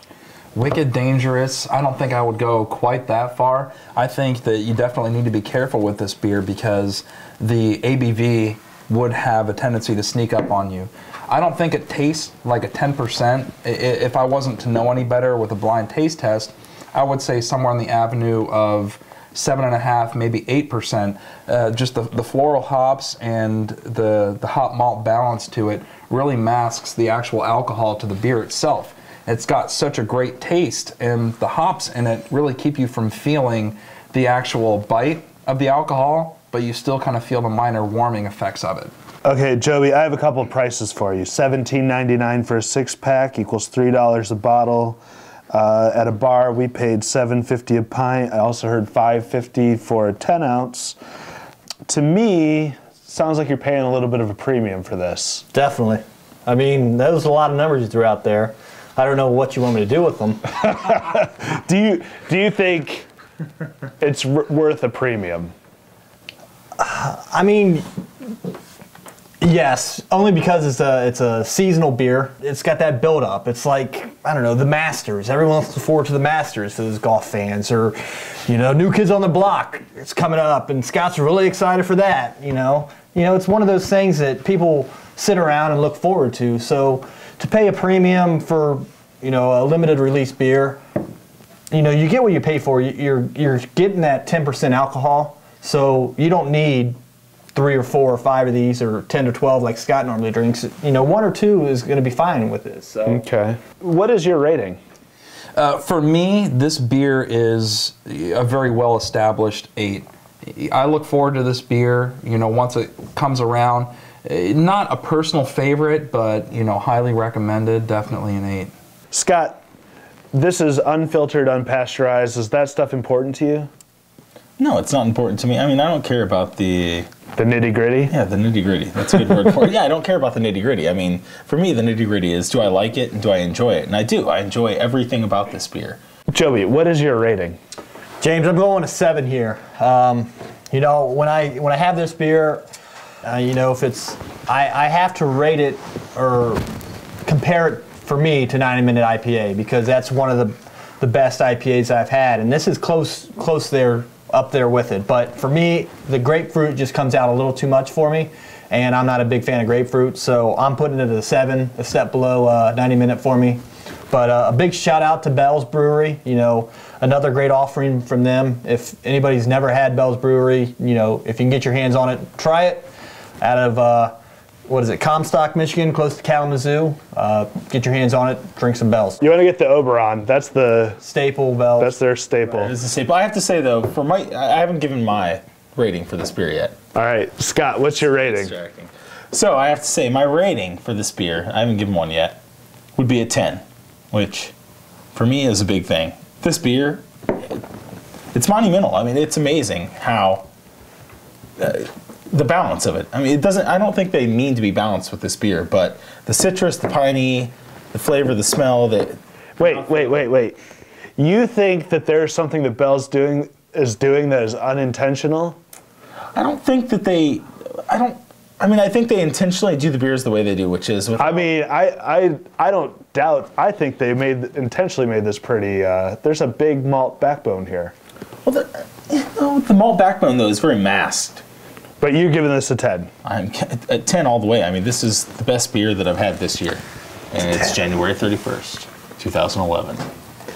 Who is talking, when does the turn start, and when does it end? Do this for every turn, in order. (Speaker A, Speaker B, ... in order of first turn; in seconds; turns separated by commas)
Speaker A: 0.6-38.9, Speaker B: 39.2-45.0, Speaker B: 45.5-51.0, Speaker B: 51.9-55.5, Speaker C: 55.5-60.5, Speaker B: 60.6-63.1, Speaker B: 64.0-65.5, Speaker C: 66.8-67.9, Speaker C: 69.4-78.0, Speaker C: 78.5-90.8, Speaker C: 91.7-97.0, Speaker C: 97.5-103.2, Speaker B: 103.1-104.8, Speaker A: 105.6-118.7, Speaker B: 119.1-119.6, Speaker B: 120.3-123.7, Speaker D: 124.6-127.1, Speaker B: 127.4-128.1, Speaker D: 128.1-136.0, Speaker B: 136.3-137.6, Speaker C: 138.2-142.7, Speaker C: 143.2-146.6, Speaker C: 147.2-172.9, Speaker C: 173.4-174.2, Speaker C: 174.7-179.2, Speaker B: 179.2-181.0, Speaker C: 181.0-181.9, Speaker B: 181.8-182.7, Speaker D: 182.6-186.8, Speaker B: 186.9-188.5, Speaker D: 188.0-192.4, Speaker D: 193.0-194.5, Speaker D: 195.1-197.6, Speaker D: 198.3-200.5, Speaker D: 201.6-210.3, Speaker B: 209.6-210.6, Speaker B: 211.2-215.6, Speaker D: 216.3-221.5, Speaker B: 221.2-227.9, Speaker D: 228.4-231.4, Speaker B: 232.0-233.1, Speaker D: 233.2-240.1